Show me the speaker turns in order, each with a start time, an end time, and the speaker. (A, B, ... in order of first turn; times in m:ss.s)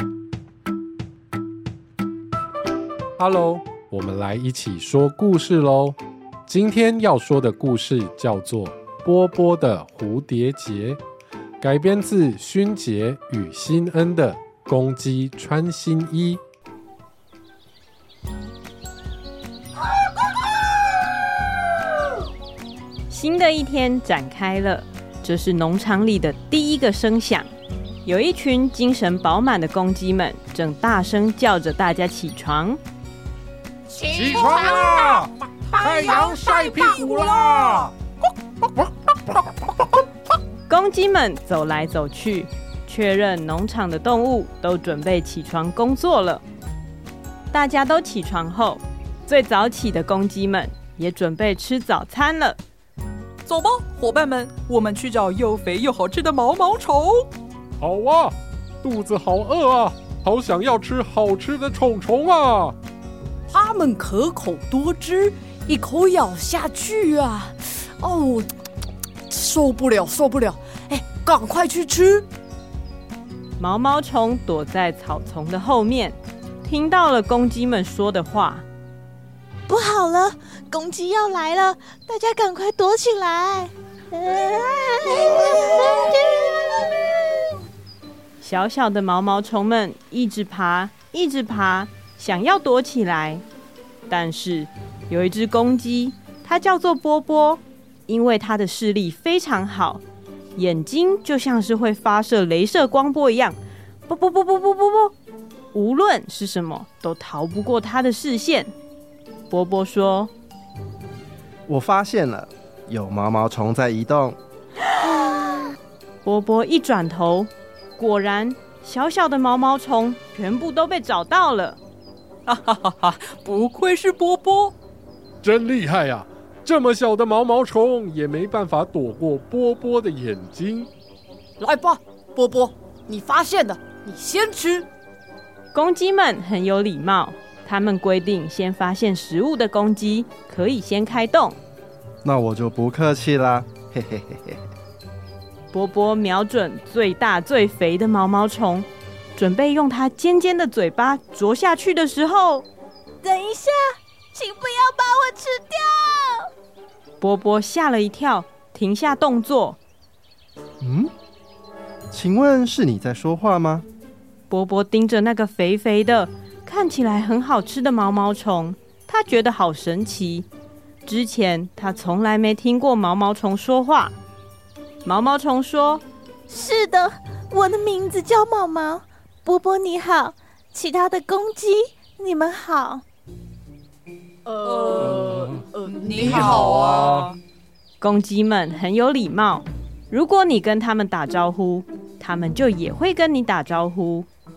0:03.2-0:11.0 A
0:11.6-0:16.4 A
0:23.1-0:27.5 B
0:28.0-0:32.8 B
0:34.1-0:35.2 C
0:35.8-0:37.8 C
0:36.0-0:36.8 A
0:40.7-0:46.4 B
0:47.5-0:52.6 B
0:53.5-0:57.3 D
0:57.8-1:02.8 A
1:00.3-1:02.6 C
1:03.5-1:08.5 E
1:09.3-1:12.3 E
1:13.6-1:18.6 B
1:19.7-1:27.1 F
1:28.4-1:33.4 B
1:34.1-1:40.0 B
1:40.6-1:45.1 B
1:45.7-1:48.7 B
1:49.5-1:50.3 B
1:51.7-1:54.4 G
1:56.2-2:01.8 B
2:02.5-2:04.7 D
2:05.4-2:10.9 A
2:05.6-2:06.0 C
2:11.6-2:14.9 E
2:15.7-2:21.6 B
2:22.2-2:24.6 G
2:25.7-2:32.7 B
2:33.2-2:36.5 F
2:37.2-2:39.8 B
2:40.8-2:41.1 G
2:42.1-2:43.9 G
2:44.5-2:50.5 B
2:51.0-2:54.1 B
2:55.0-2:56.0 B
2:56.5-3:03.0 F
3:04.5-3:07.0 E
3:04.7-3:05.0 D
3:05.0-3:05.6 C
3:05.9-3:07.4 D
3:06.2-3:07.3 C
3:08.0-3:14.3 B